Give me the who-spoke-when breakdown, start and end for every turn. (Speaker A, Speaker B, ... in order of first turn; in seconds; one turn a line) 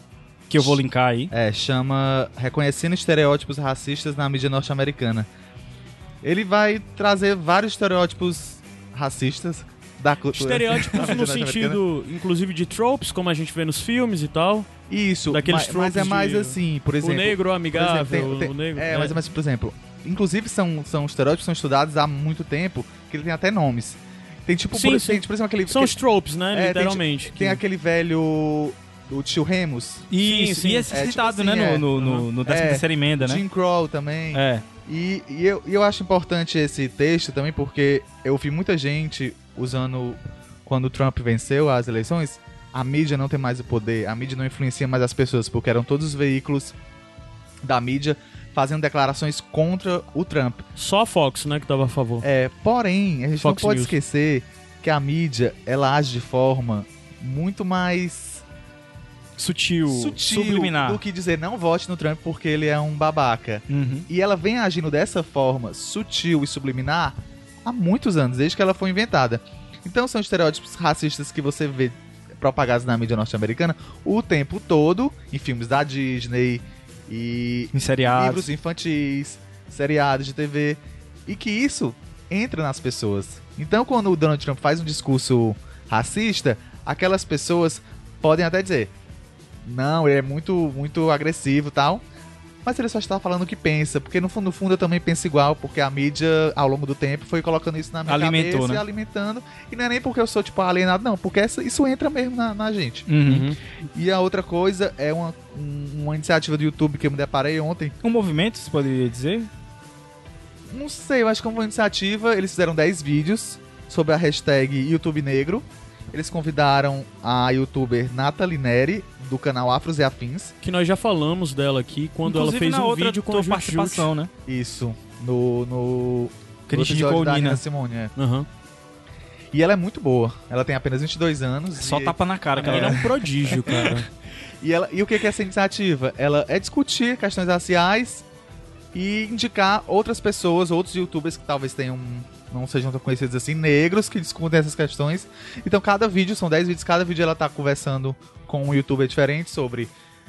Speaker A: 0.5-1.3
Speaker B: 1.3-5.3
Speaker B: 6.2-11.8
Speaker C: 10.3-14.7
Speaker B: 14.9-26.0
Speaker C: 15.3-19.2
Speaker C: 24.7-27.6
Speaker B: 26.5-30.1
Speaker A: 30.1-33.4
Speaker C: 30.2-30.9
Speaker B: 30.9-46.7
Speaker A: 34.3-34.6
Speaker B: 47.6-50.6
Speaker C: 50.8-52.2
Speaker B: 52.2-58.4
Speaker C: 53.4-54.0
Speaker A: 59.4-61.0
Speaker B: 59.9-88.9
Speaker A: 63.7-64.1
Speaker A: 77.7-78.5
Speaker B: 89.7-92.0
Speaker B: 92.7-103.1
Speaker A: 98.1-98.8
Speaker A: 103.1-103.5
Speaker C: 103.3-103.6
Speaker B: 103.9-107.9
Speaker A: 108.0-109.5
Speaker B: 110.7-120.5
Speaker C: 120.6-124.1
Speaker A: 122.2-124.3
Speaker B: 124.5-128.1
Speaker A: 126.7-127.6
Speaker C: 128.2-128.5
Speaker B: 129.5-133.0
Speaker A: 131.8-134.0
Speaker C: 132.6-134.1
Speaker B: 134.6-138.3
Speaker B: 138.9-149.9